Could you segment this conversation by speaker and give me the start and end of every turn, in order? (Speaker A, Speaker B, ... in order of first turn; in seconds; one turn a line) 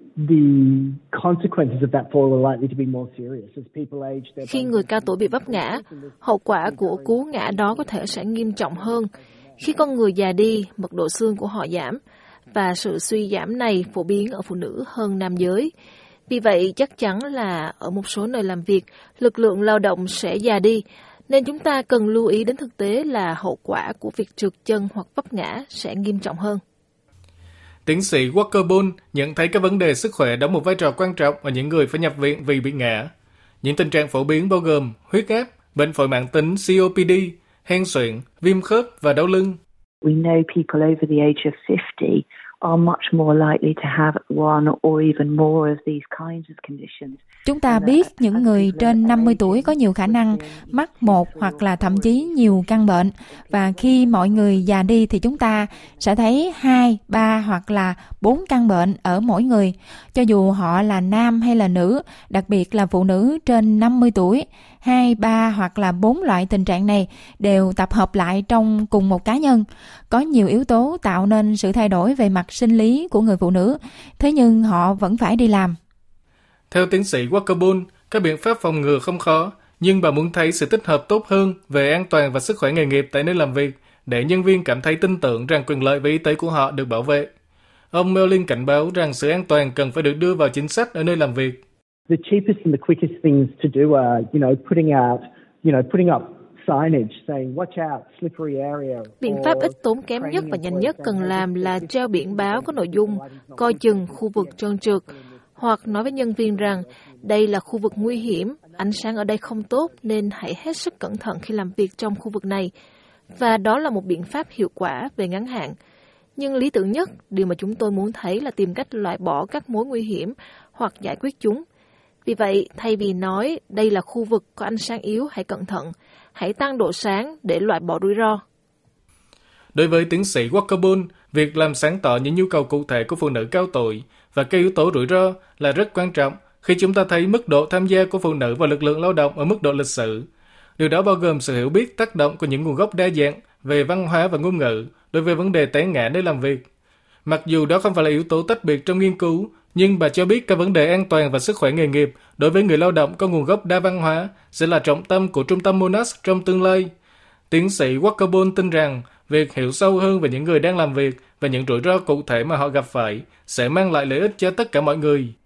Speaker A: 0.2-9.9
Speaker B: 4.4-12.0
Speaker B: 12.5-15.7
Speaker B: 16.3-26.6
Speaker C: 27.9-33.1
Speaker C: 33.6-39.6
Speaker D: 40.0-56.1
Speaker E: 47.5-75.8
Speaker C: 76.7-87.3
Speaker C: 87.9-91.6
Speaker A: 92.1-110.3
Speaker B: 99.2-105.1
Speaker B: 105.6-112.7
Speaker B: 113.3-115.7
Speaker B: 116.3-121.6
Speaker B: 122.2-128.4
Speaker C: 129.7-140.3
Speaker C: 140.8-146.7
Speaker C: 147.2-156.9
Speaker C: 157.5-165.3